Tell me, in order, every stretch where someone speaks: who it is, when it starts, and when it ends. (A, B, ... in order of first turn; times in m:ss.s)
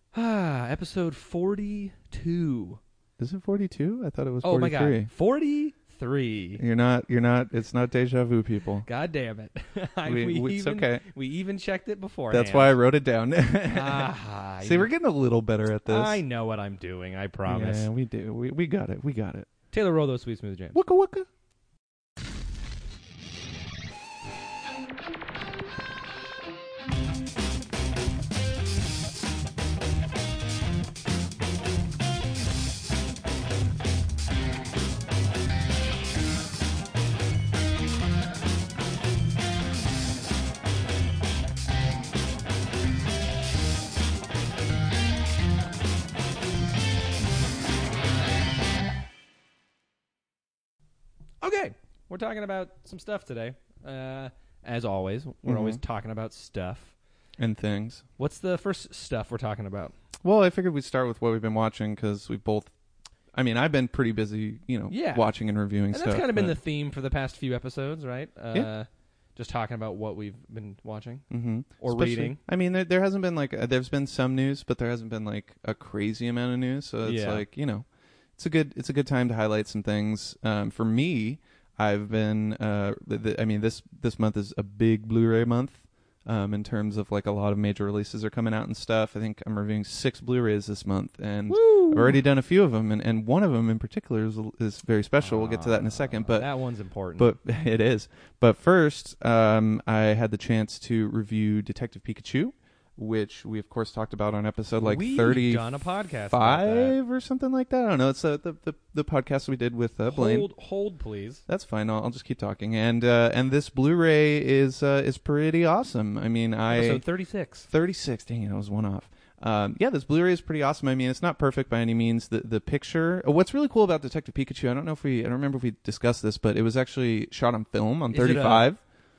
0:00.1-0:02.8 A
0:03.2-0:05.1 B
0:04.4-0:06.6 A
0:06.6-0:08.9 B
0:08.8-0:12.8 A
0:10.0-0:11.0 B
0:12.3-0:14.1 B
0:13.7-0:14.9 A
0:14.6-0:16.2 B
0:15.8-0:17.9 A
0:17.4-0:19.5 B
0:19.7-0:20.8 A
0:20.7-0:21.3 B
0:51.4-0:56.9 A
0:55.4-0:55.8 B
0:57.4-0:58.0 B
0:58.2-0:59.9 A
1:00.2-1:02.7 B
1:03.3-1:06.6 B
1:04.9-1:05.3 A
1:05.9-1:11.2 A
1:11.3-1:17.8 B
1:11.8-1:12.4 A
1:17.0-1:17.4 A
1:18.4-1:36.5 B
1:31.5-1:32.2 A
1:35.2-1:37.3 A
1:37.2-1:45.8 B
1:44.8-1:47.0 A
1:46.3-1:50.5 B
1:50.1-1:51.4 A
1:51.5-1:57.0 B
1:56.7-1:57.7 A
1:57.7-2:08.8 B
2:08.1-2:08.7 A